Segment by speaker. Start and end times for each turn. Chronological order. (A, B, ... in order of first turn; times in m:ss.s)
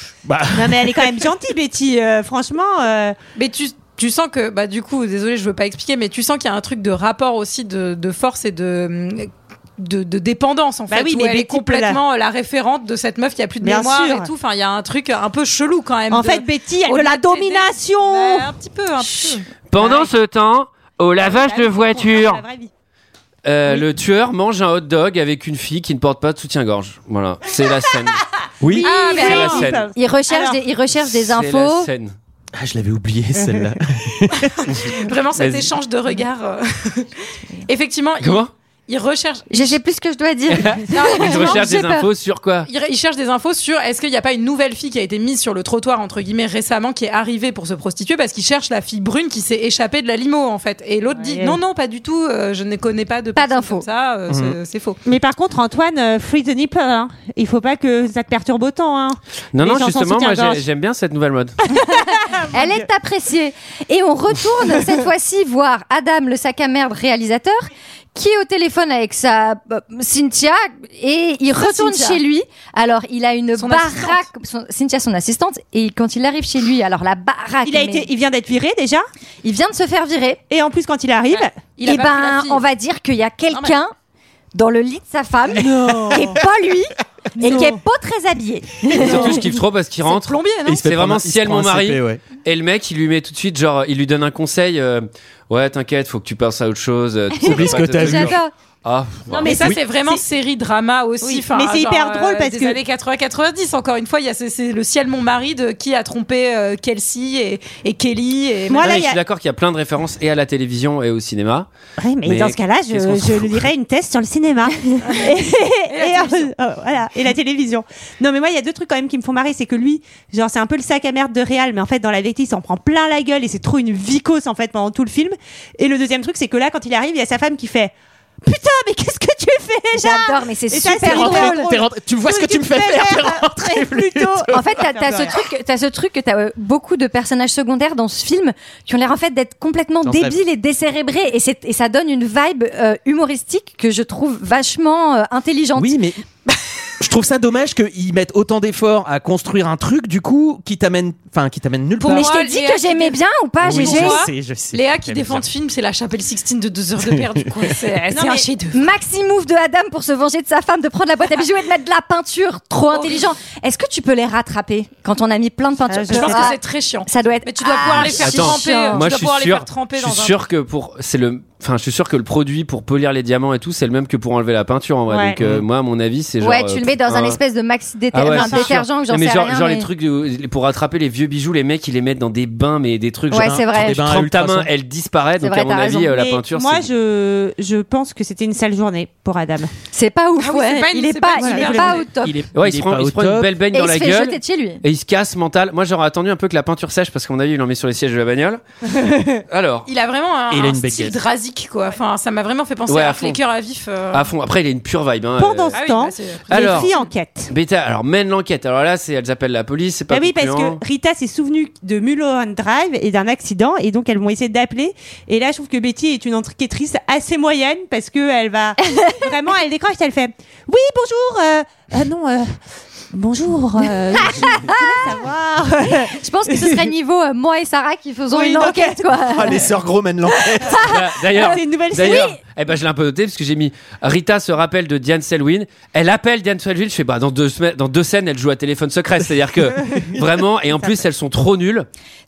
0:00.2-0:01.3 A
0:00.5-0:03.2 B
0:03.4-0:19.5 C
0:10.9-0:12.0 B
0:13.6-0:14.3 B
0:16.1-0:18.5 B
0:19.7-0:22.4 D
0:19.8-0:20.1 B
0:21.2-0:22.7 B
0:23.4-0:28.2 D
0:28.6-0:28.9 A
0:28.6-0:30.6 B
0:28.8-0:31.9 E
0:28.9-0:29.6 C
0:29.2-0:29.9 D
0:31.1-0:32.1 D
0:32.6-0:34.5 A
0:34.6-0:37.1 C
0:35.4-0:35.7 D
0:37.7-0:39.8 C
0:38.2-0:38.5 D
0:39.5-0:42.1 E
0:40.5-0:42.7 D
0:40.9-0:41.7 C
0:42.7-0:55.0 C
0:51.2-0:51.6 B
0:53.4-0:53.9 E
0:54.3-0:54.6 A
0:55.0-1:00.6 B
0:59.5-1:01.6 D
1:01.7-1:02.8 B
1:01.8-1:18.1 E
1:11.6-1:12.2 C
1:13.6-1:14.2 C
1:17.6-1:19.1 B
1:19.4-1:20.4 E
1:20.5-1:21.6 B
1:21.3-1:22.6 C
1:21.8-1:23.9 E
1:24.6-1:29.4 E
1:25.6-1:26.4 A
1:27.4-1:27.8 B
1:28.9-1:39.5 D
1:30.0-1:30.8 C
1:30.7-1:32.2 A
1:37.4-1:38.4 A
1:37.5-1:38.5 E
1:39.3-1:40.2 B
1:39.4-1:49.0 C
1:41.2-1:42.8 B
1:48.7-1:49.2 B
1:48.8-1:51.7 D
1:52.0-2:15.4 B
1:52.2-1:53.7 D
1:55.9-1:56.5 C
2:09.9-2:11.7 E
2:11.0-2:14.7 A
2:14.5-2:26.0 E
2:20.0-2:20.4 A
2:25.8-2:26.2 A
2:27.0-2:32.3 A
2:32.0-2:38.9 C
2:32.0-2:34.3 E
2:33.6-2:35.4 A
2:37.0-2:37.7 A
2:38.1-2:38.5 B
2:38.7-2:49.1 E
2:42.9-2:43.2 C
2:45.9-2:46.5 B
2:46.1-2:50.4 C
2:48.0-2:57.4 D
2:55.1-2:55.4 B
2:55.4-2:55.6 A
2:56.4-2:59.9 E
2:58.1-3:06.9 D
2:58.3-2:58.7 B
3:03.3-3:04.0 E
3:03.3-3:04.7 A
3:05.4-3:06.2 E
3:06.1-3:09.7 B
3:09.9-3:12.4 E
3:10.4-3:12.1 C
3:11.4-3:12.0 B
3:12.2-3:13.5 A
3:12.5-3:18.6 D
3:13.7-3:14.8 E
3:18.9-3:19.4 B
3:19.5-3:19.9 D
3:19.9-3:24.3 C
3:20.5-3:21.2 A
3:22.9-3:23.4 D
3:24.1-3:25.8 D
3:25.4-3:27.5 B
3:25.7-3:27.0 C
3:26.5-3:26.9 D
3:27.5-3:30.8 D
3:30.1-3:42.6 B
3:38.8-3:39.2 E
3:43.1-3:46.9 B
3:44.2-3:45.1 E
3:46.0-3:49.6 E
3:48.3-3:49.0 B
3:49.2-3:50.8 A
3:50.5-3:52.3 E
3:50.8-4:01.9 D
3:51.4-3:52.4 B